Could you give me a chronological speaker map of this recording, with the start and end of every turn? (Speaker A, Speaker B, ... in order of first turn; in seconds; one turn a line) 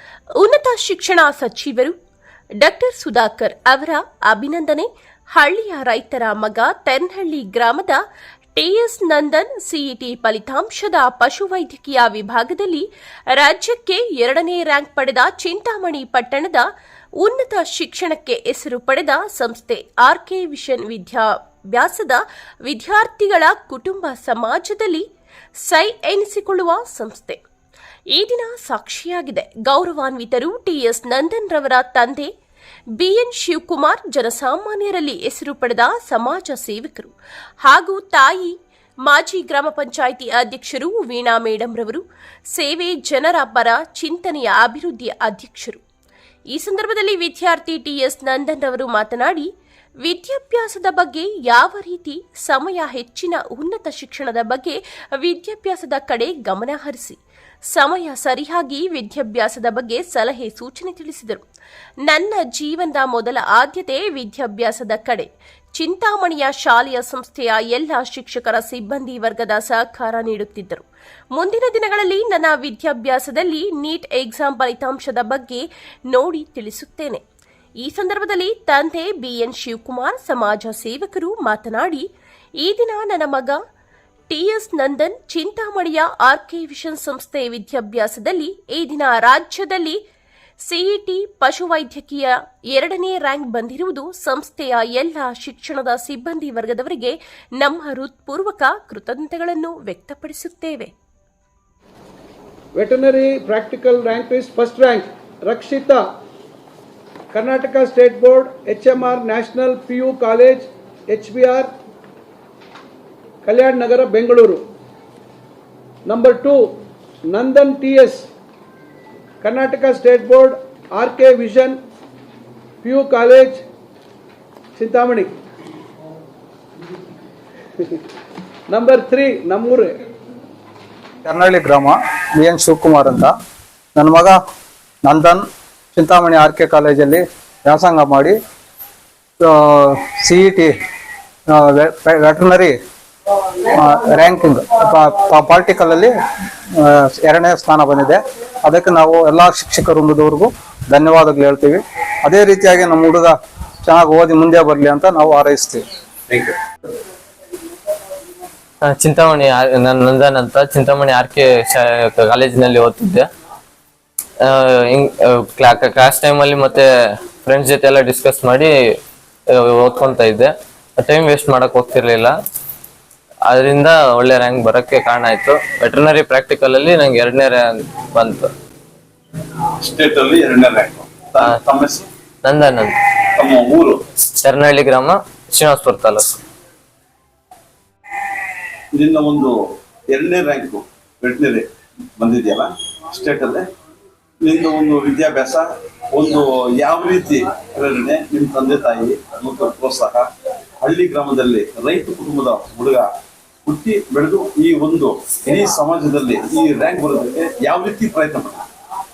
Speaker A: 0.4-1.9
Speaker A: 2.6-8.0
Speaker A: 8.5-16.6
Speaker A: 17.2-25.0
Speaker A: 25.6-27.4
Speaker A: 28.1-32.3
Speaker A: 33.0-37.1
Speaker A: 37.6-38.5
Speaker A: 39.0-42.0
Speaker A: 42.5-45.8
Speaker A: 46.5-49.5
Speaker A: 50.0-57.2
Speaker A: 57.7-61.4
Speaker A: 62.1-77.2
Speaker A: 77.8-82.0
Speaker A: 82.6-83.6
Speaker A: 84.3-90.0
Speaker A: 90.6-100.9
Speaker B: 102.7-106.0
Speaker B: 107.3-111.7
Speaker B: 113.4-114.6
Speaker B: 116.0-116.7
Speaker B: 117.3-118.3
Speaker B: 119.4-121.8
Speaker B: 122.8-123.6
Speaker B: 124.8-125.3
Speaker B: 128.7-129.9
Speaker C: 131.2-133.3
Speaker C: 134.0-134.4
Speaker C: 135.0-135.4
Speaker C: 135.9-138.3
Speaker C: 139.4-140.7
Speaker C: 141.5-142.7
Speaker C: 143.7-146.1
Speaker C: 146.8-155.8
Speaker D: 156.3-156.5
Speaker E: 158.8-163.2
Speaker E: 164.4-166.9
Speaker E: 167.4-168.7
Speaker E: 169.5-172.3
Speaker E: 173.5-178.5
Speaker D: 179.8-182.1
Speaker E: 182.4-182.9
Speaker D: 183.3-184.0
Speaker E: 184.4-186.4
Speaker D: 188.9-189.5
Speaker D: 190.1-191.6
Speaker D: 192.2-193.6
Speaker D: 194.4-200.2
Speaker D: 200.8-203.1
Speaker D: 203.7-208.6